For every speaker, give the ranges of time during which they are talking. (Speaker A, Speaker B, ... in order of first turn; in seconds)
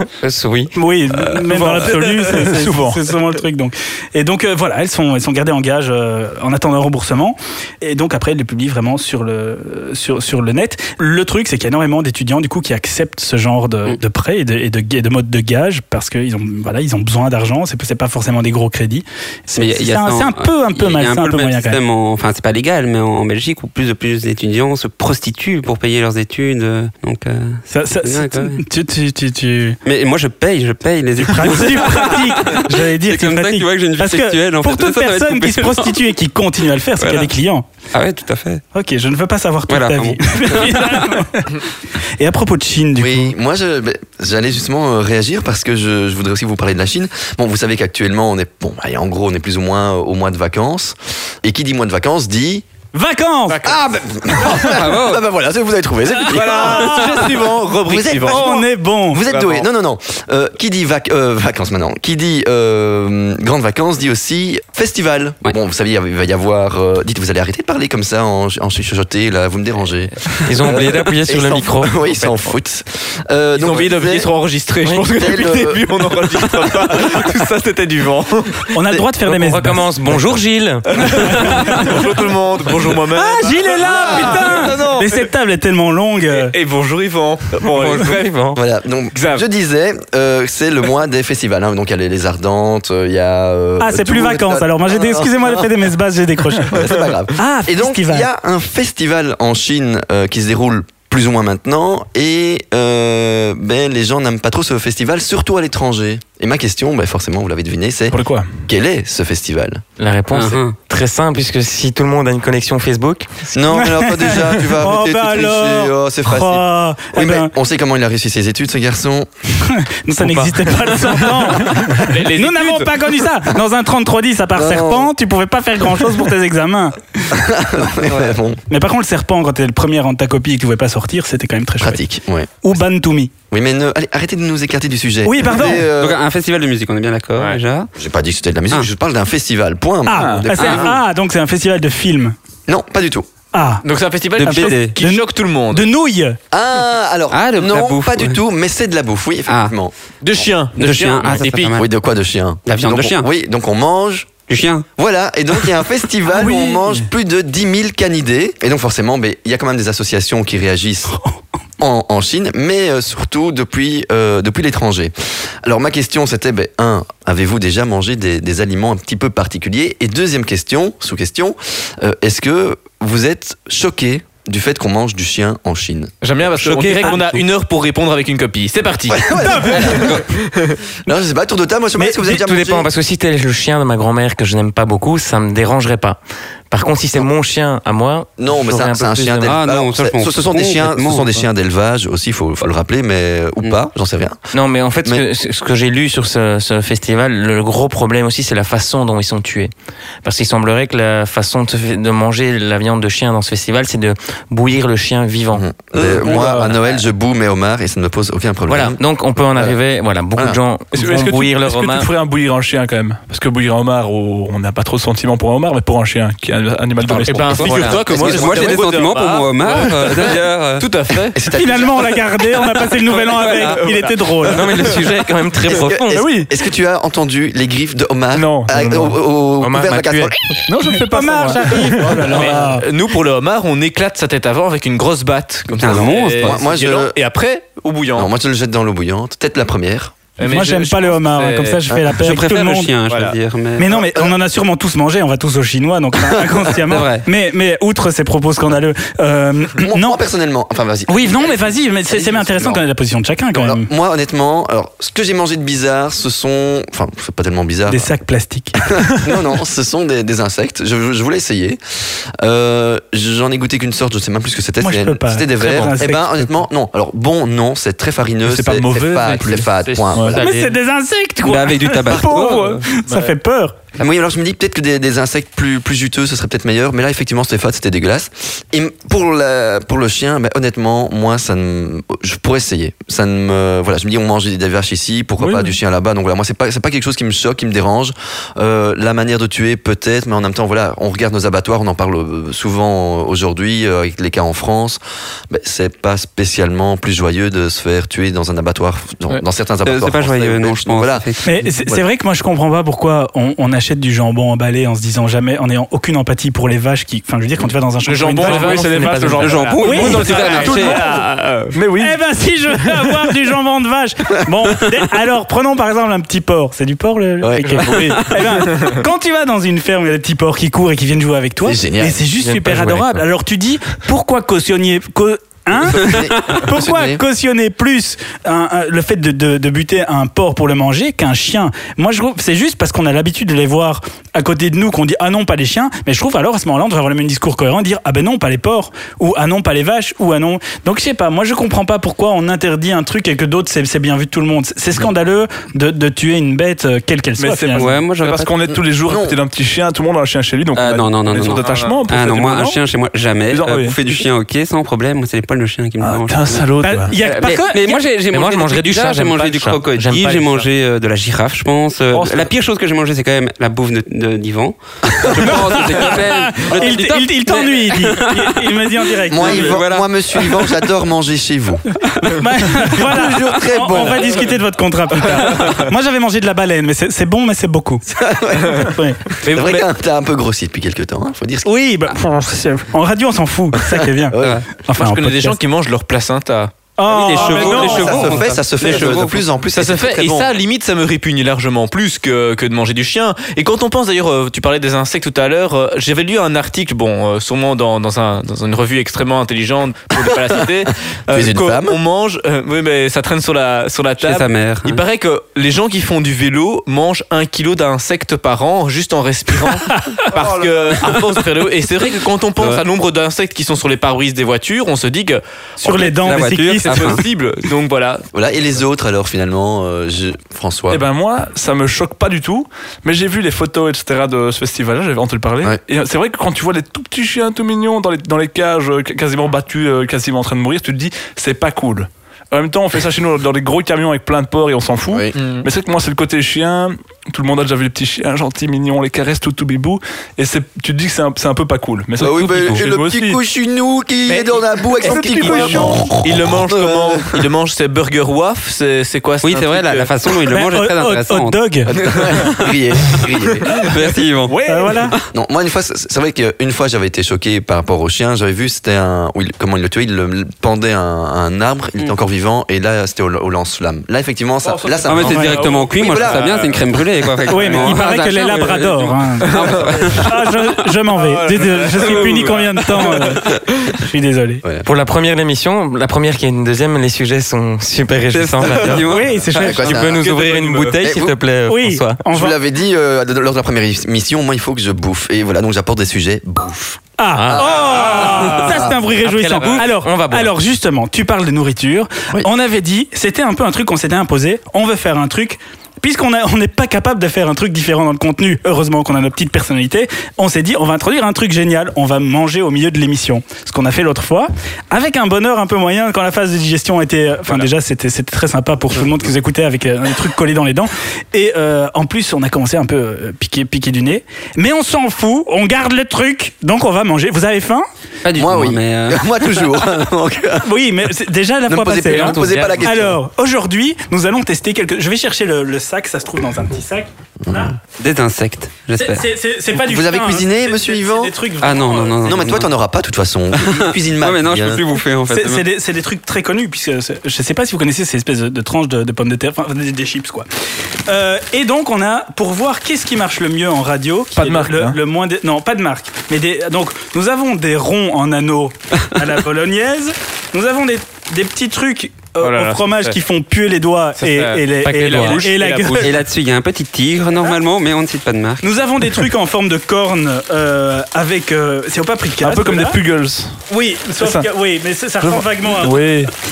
Speaker A: 0.2-0.7, 70.5-72.5, 79.2-81.6, 87.6-88.6, 110.0-113.5, 182.2-186.2, 186.7-189.5, 194.5-199.7, 200.2-205.7, 206.2-206.5, 208.7-212.1, 217.3-218.0, 223.4-223.7, 224.4-226.3, 229.6-230.5, 269.8-270.7, 308.6-309.8, 322.4-323.2, 357.2-357.6, 358.3-360.6, 365.8-366.2, 366.8-367.7, 474.8-482.2, 487.3-490.5, 522.1-522.9
Speaker B: 0.7-21.8, 27.7-29.8, 31.2-37.6, 38.7-41.6, 42.2-43.4, 52.9-53.7, 56.1-57.3, 58.2-59.2, 78.7-80.1, 81.0-82.0, 83.1-86.5, 93.8-98.3, 113.7-117.5, 119.6-127.4, 128.7-132.0, 132.6-133.3, 135.2-135.9, 140.1-142.4, 143.5-143.8, 144.4-146.4, 179.4-180.0, 182.0-182.4, 221.5-224.7, 230.9-232.8, 240.4-242.9, 243.8-250.2, 251.1-253.9, 257.9-258.8, 264.8-266.6, 270.4-273.8, 301.4-308.8, 309.8-310.9, 312.0-347.9, 356.8-358.0, 365.2-369.8, 372.2-378.1, 378.8-379.2, 381.6-385.6, 387.0-388.4, 409.9-410.2, 415.8-417.2, 445.0-446.0, 450.5-451.9, 454.7-455.1, 465.2-465.6, 467.5-474.6, 479.0-480.0, 481.7-482.6, 487.2-517.9, 520.6-527.7, 529.0-532.4, 535.3-540.5, 541.1-556.1, 558.6-563.0, 563.7-566.0
Speaker C: 1.3-3.1, 108.1-108.5, 140.1-140.5, 156.4-157.0, 206.0-206.7, 210.9-217.7, 226.1-226.5, 228.3-229.2, 230.7-232.6, 268.4-270.4, 272.3-273.3, 285.4-285.7, 308.4-312.2, 312.8-313.2, 317.8-318.2, 347.4-352.8, 353.5-353.9, 356.0-357.2, 362.1-362.5, 420.9-443.4, 445.5-446.1, 454.5-455.0, 544.4-545.0, 562.4-563.5, 564.2-564.5, 565.2-566.3
Speaker D: 19.6-28.6, 29.9-36.0, 37.0-37.3, 37.9-38.6, 39.7-41.2, 54.6-55.2, 110.3-110.8, 136.0-137.9, 140.6-140.9, 144.4-145.0, 147.3-148.4, 149.5-149.7, 150.8-151.9, 152.7-153.3, 154.5-154.9, 176.6-177.4, 179.9-180.2, 189.4-191.4, 217.1-220.9, 235.7-236.7, 242.2-243.9, 246.9-247.3, 271.4-272.8, 299.9-301.7, 309.4-311.0, 347.8-348.5, 350.8-356.7, 357.2-368.5, 369.3-370.6, 387.3-389.4, 404.2-405.0, 415.9-417.2, 449.4-451.6, 452.4-453.3, 453.8-455.2, 465.1-470.4, 478.3-480.1, 518.2-519.2, 528.0-529.2, 531.6-532.7, 533.6-535.7, 555.9-558.6
Speaker E: 43.0-52.7, 53.6-74.3, 75.2-75.9, 84.0-84.4, 88.5-95.5, 96.7-109.8, 113.5-119.3, 124.5-125.1, 127.3-128.6, 131.8-132.7, 133.5-136.2, 138.0-141.0, 142.7-143.3, 146.5-149.9, 151.8-154.3, 155.0-161.2, 161.8-176.1, 179.1-180.2, 181.1-182.9, 188.4-194.4, 205.5-209.0, 218.1-218.9, 221.2-222.2, 225.7-230.6, 235.8-237.2, 238.2-240.2, 241.9-242.1, 244.0-244.3, 246.4-246.7, 249.8-252.8, 253.5-258.2, 258.8-270.4, 274.0-301.3, 317.4-318.5, 321.6-322.2, 325.7-327.2, 348.7-349.4, 369.3-371.8, 372.8-374.4, 378.1-381.7, 383.8-384.7, 387.5-390.5, 401.3-402.0, 418.3-421.0, 442.2-447.5, 451.9-453.7, 455.3-466.7, 479.5-480.4, 481.0-481.4, 482.3-489.0, 518.4-520.7, 521.7-523.2, 527.4-527.7, 529.7-531.4, 532.2-534.8
Speaker F: 53.5-53.8, 56.2-58.6, 59.3-59.6, 73.5-78.7, 80.9-85.3, 86.3-88.3, 89.1-89.5, 122.0-122.9, 143.8-145.9, 150.2-151.8, 176.2-180.8, 217.3-221.4, 223.2-225.0, 232.3-238.3, 240.4-241.8, 243.1-243.4, 308.1-311.7, 351.4-352.0, 374.0-374.5, 375.2-375.9, 379.4-379.9, 384.9-388.3, 389.7-418.2, 435.3-435.7, 444.3-450.1, 464.7-466.9, 469.4-470.3, 471.1-473.9, 487.9-488.6, 552.4-553.2, 554.2-556.2